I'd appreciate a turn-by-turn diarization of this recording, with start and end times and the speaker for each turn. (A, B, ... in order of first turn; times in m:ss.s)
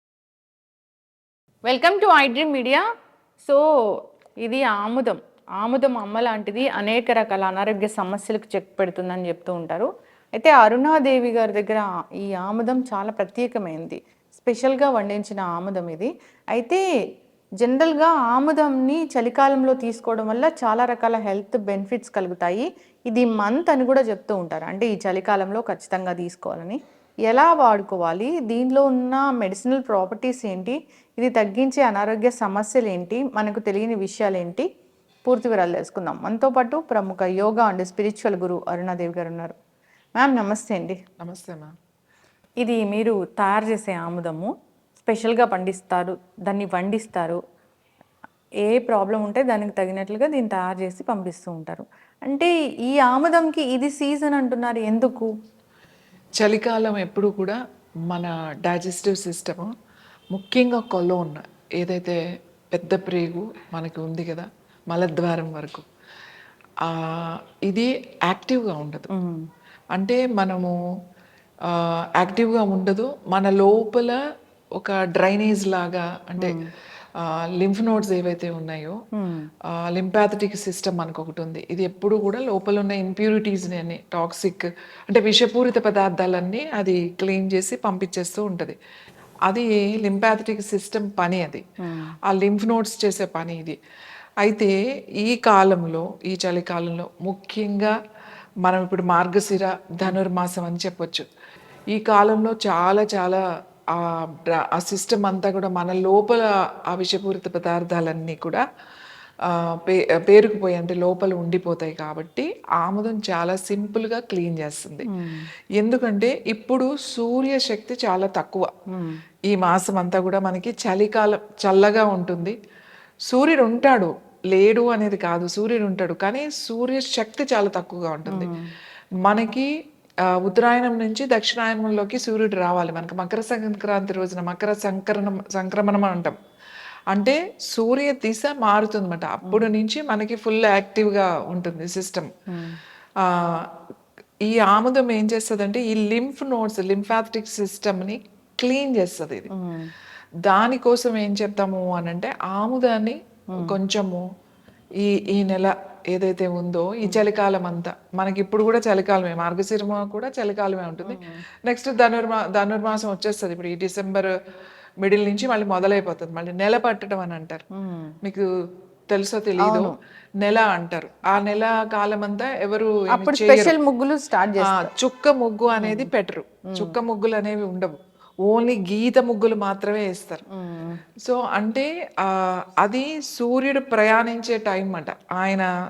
0:01.7-0:02.8 A
0:03.4-0:16.8 A
0:17.6-0:34.7 A
0:35.3-0:39.6 A
0:40.2-0:41.0 A
0:41.2-0:41.7 B
0:42.6-0:44.5 A
0:45.0-0:47.4 A
0:48.7-0:55.3 A
0:56.4-0:57.6 B
0:58.1-0:59.7 B
1:00.3-1:02.2 B
1:02.7-1:05.9 B
1:06.8-1:09.1 B
1:09.1-1:09.4 A
1:09.9-1:10.8 B
1:11.7-1:14.2 B
1:14.8-1:16.5 B
1:17.2-1:19.0 B
1:19.2-1:19.5 A
1:19.9-1:28.8 B
1:29.5-1:31.6 B
1:31.8-1:32.1 A
1:32.3-1:33.8 B
1:34.4-1:37.9 B
1:38.6-1:41.3 B
1:41.9-1:43.4 B
1:43.9-1:48.6 B
1:49.5-1:55.1 B
1:55.1-1:55.5 A
1:55.8-1:58.7 B
1:58.9-1:59.2 A
1:59.5-2:02.6 B
2:03.3-2:08.5 B
2:08.3-2:08.7 A
2:09.2-2:09.7 B
2:10.4-2:16.4 B
2:17.1-2:22.3 B
2:22.5-2:22.8 A
2:23.2-2:23.7 B
2:24.5-2:29.5 B
2:29.5-2:29.9 A
2:30.5-2:34.2 B
2:35.0-2:44.3 B
2:41.0-2:41.4 A
2:45.0-2:47.6 B
2:47.7-2:48.1 A
2:48.2-2:48.5 B
2:49.1-2:53.7 B
2:49.6-2:50.0 A
2:53.1-2:54.9 A
2:54.7-3:00.4 B
2:55.8-2:56.1 A
3:00.5-3:01.0 A
3:01.2-3:05.7 B